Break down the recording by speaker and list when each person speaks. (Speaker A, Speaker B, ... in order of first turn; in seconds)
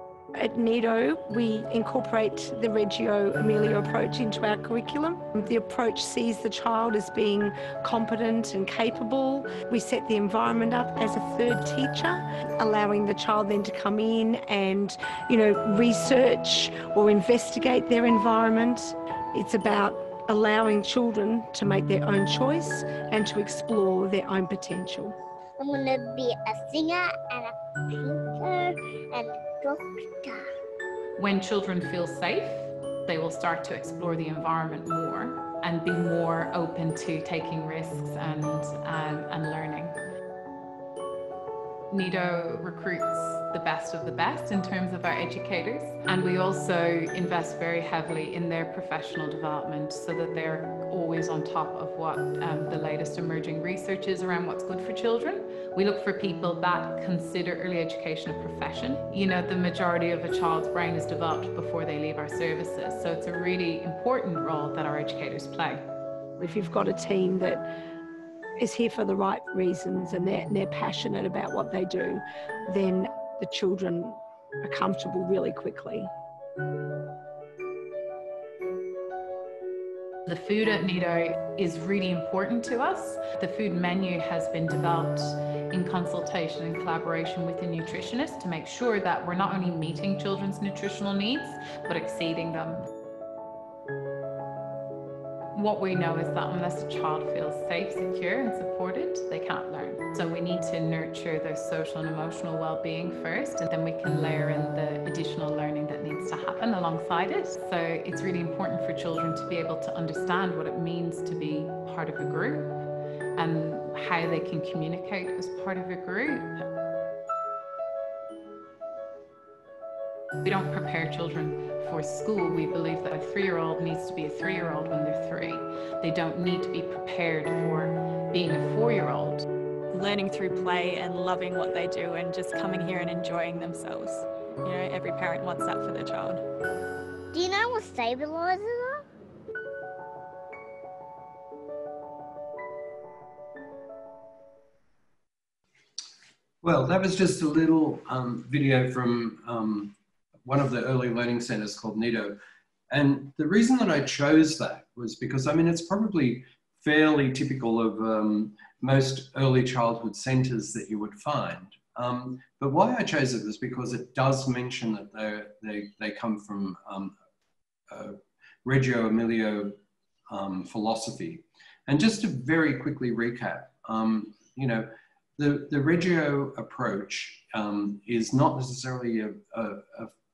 Speaker A: 0.3-25.2, 66.4-67.6, 68.6-76.1
Speaker B: 25.6-30.4, 137.3-139.0
Speaker C: 31.2-39.9, 41.9-65.8, 80.2-92.9, 95.5-112.8, 113.3-116.6, 120.4-129.4
Speaker D: 129.9-136.4
Speaker E: 146.6-149.9, 150.4-152.4, 152.9-167.2, 167.9-180.1